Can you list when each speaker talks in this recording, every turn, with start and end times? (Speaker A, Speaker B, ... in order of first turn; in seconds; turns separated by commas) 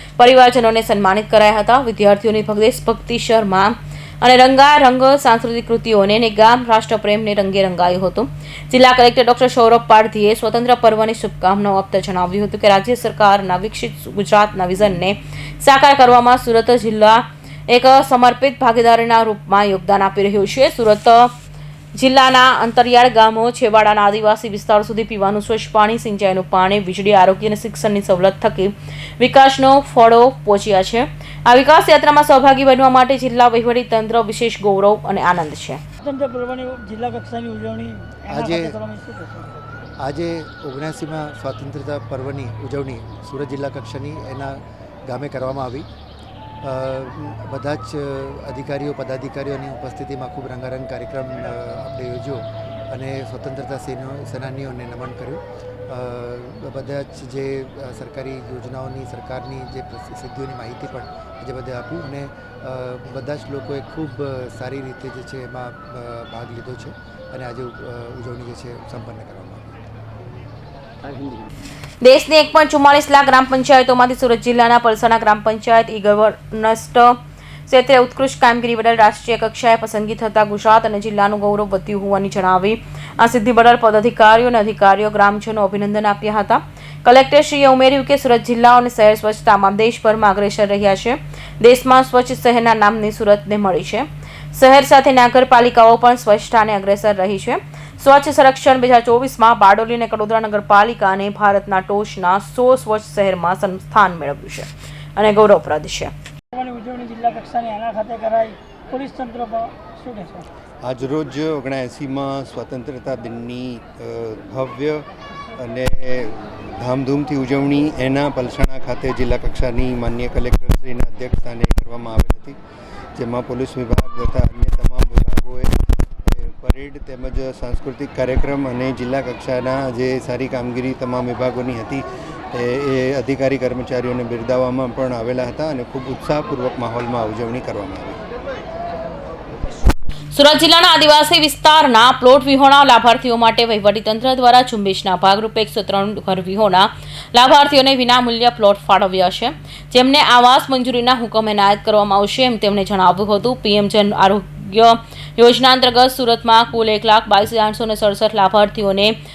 Speaker A: 0.2-21.3, Speaker A: 21.9-35.8, Speaker B: 36.0-39.5, Speaker C: 38.3-38.8, Speaker C: 40.0-45.9, Speaker C: 46.6-69.8, Speaker A: 72.0-106.1, Speaker B: 106.5-110.5, Speaker D: 110.8-122.6, Speaker D: 123.2-138.2, Speaker A: 140.3-159.2